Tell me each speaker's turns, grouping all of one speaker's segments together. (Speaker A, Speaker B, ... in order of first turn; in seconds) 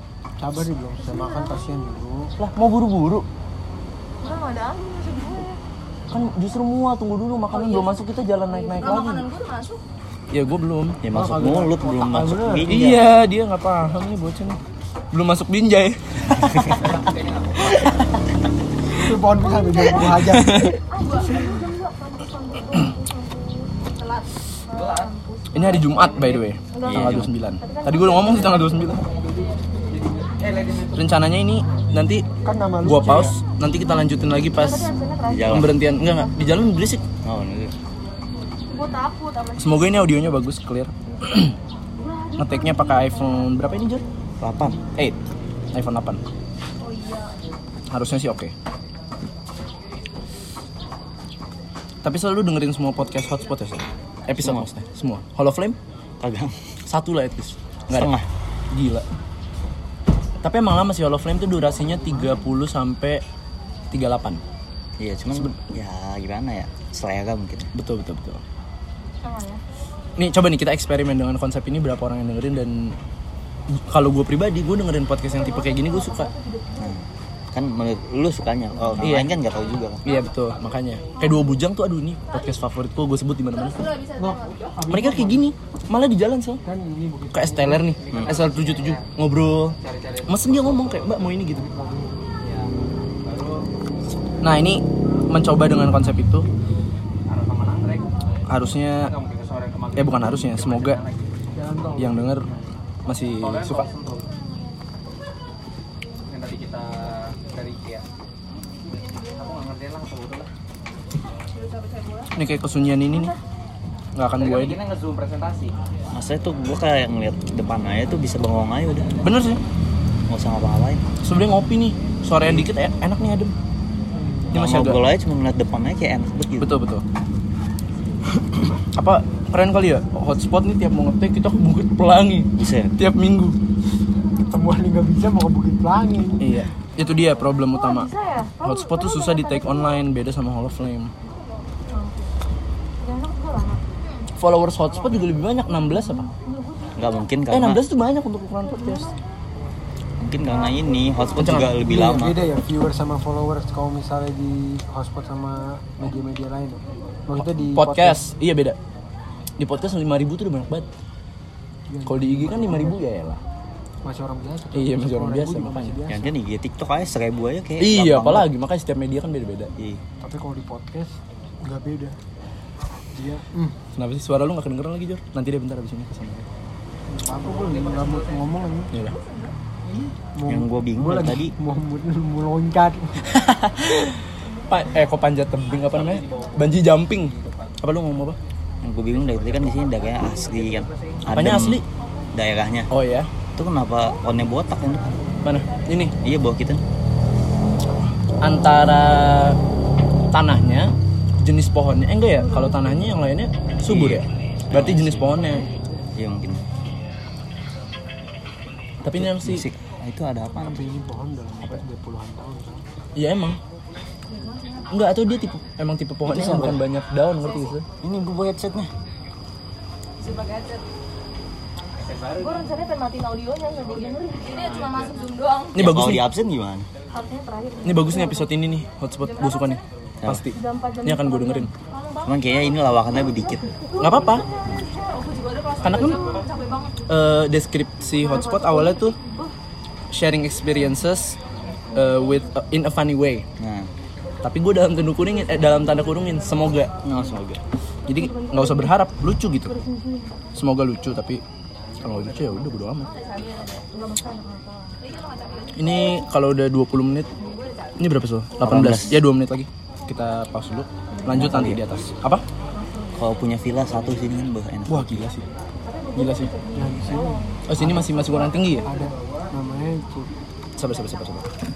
Speaker A: 0.4-2.3, 11.1-13.0, 18.9-20.7, 32.4-33.4, 84.2-85.5, 86.6-88.0, 91.5-92.1, 101.5-102.5, 124.1-124.5, 134.5-136.5, 151.8-158.2, 161.9-163.0, 164.0-166.3, 170.2-172.2, 173.1-173.7, 177.1-178.9, 180.3-183.2, 210.6-212.8, 266.7-270.3
Speaker B: 1.1-1.5, 4.2-5.6, 7.5-9.8, 19.5-26.1, 26.7-29.4, 34.5-36.3, 38.7-40.2, 42.0-43.5, 46.8-47.3, 69.2-69.6, 75.3-76.9, 81.2-81.6, 82.3-82.6, 83.5-84.6, 111.5-112.3, 113.0-113.4, 137.7-140.0, 141.9-142.3, 143.0-143.8, 146.3-147.0, 148.8-149.1, 179.1-179.5, 214.3-214.9, 220.2-220.8, 222.4-225.9, 227.1-228.5, 229.2-229.8, 230.5-232.3, 233.9-237.0, 238.2-239.5, 245.6-246.3, 248.4-248.8, 249.7-250.2, 253.0-256.2, 257.4-257.9, 261.2-261.4, 262.7-263.1, 265.8-267.6
Speaker C: 2.4-3.2, 6.1-9.3, 10.3-11.0, 12.7-14.6, 15.1-16.9, 17.7-17.9, 20.0-20.8, 25.5-29.0, 30.9-32.2, 32.8-34.9, 35.5-37.0, 39.6-41.5, 42.4-44.0, 45.7-46.2, 47.9-48.5, 52.0-55.8, 56.9-58.1, 58.7-59.0, 60.4-63.2, 63.9-64.4, 67.7-68.4, 70.2-73.0, 73.7-76.3, 79.0-79.4, 80.0-83.9, 84.9-86.6, 87.3-91.6, 94.4-96.5, 98.5-99.1, 100.0-101.0, 102.0-102.5, 103.1-103.9, 112.3-113.3, 114.2-114.8, 119.2-119.6, 121.2-123.5, 124.5-125.0, 126.6-127.0, 128.9-133.6, 136.4-141.1, 144.4-146.3, 147.5-149.1, 151.3-151.8, 157.4-158.8, 159.6-160.9, 162.1-163.4, 164.7-166.0, 167.8-169.7, 173.9-176.5, 178.9-179.2, 183.2-188.4, 191.3-191.8, 192.9-193.3, 195.4-196.1, 198.4-199.6, 200.3-205.7, 209.0-209.7, 213.1-213.6, 214.9-217.8, 225.7-226.2, 227.8-231.7, 234.0-234.4, 235.8-236.3, 237.1-239.2, 240.1-241.4, 241.9-243.4, 244.4-246.9, 248.1-249.7, 250.5-251.4, 252.0-253.1, 255.8-257.3, 258.0-262.4, 264.9-265.4, 266.1-266.5, 267.7-268.9, 270.8-271.5
Speaker D: 11.0-13.1, 26.8-27.3, 35.2-35.8, 37.2-37.7, 44.4-44.8, 54.4-54.7, 56.2-56.5, 57.9-58.3, 65.0-67.7, 76.8-80.0, 116.1-119.1, 120.3-121.0, 124.5-126.7, 132.6-132.9, 146.9-147.8, 150.2-152.4, 166.1-168.5, 180.4-181.5, 188.8-191.8, 192.3-192.9, 193.6-195.2, 196.2-196.8, 203.8-205.4, 206.2-206.7, 209.1-210.8, 216.3-216.8, 218.0-218.9, 225.8-226.9, 232.2-233.7, 243.6-243.9, 247.0-247.6, 258.6-259.2, 261.3-261.8, 263.1-265.3
Speaker E: 16.7-18.0, 24.7-26.4, 29.0-31.1, 84.4-84.8, 88.0-89.1, 89.8-91.5, 92.4-93.6, 97.3-98.4, 99.0-101.3, 103.4-104.3, 106.3-108.0, 109.1-110.5, 114.4-115.7, 177.3-178.5, 179.8-180.1, 185.7-187.8, 190.5-191.2, 221.9-222.8, 223.8-225.2, 268.8-269.5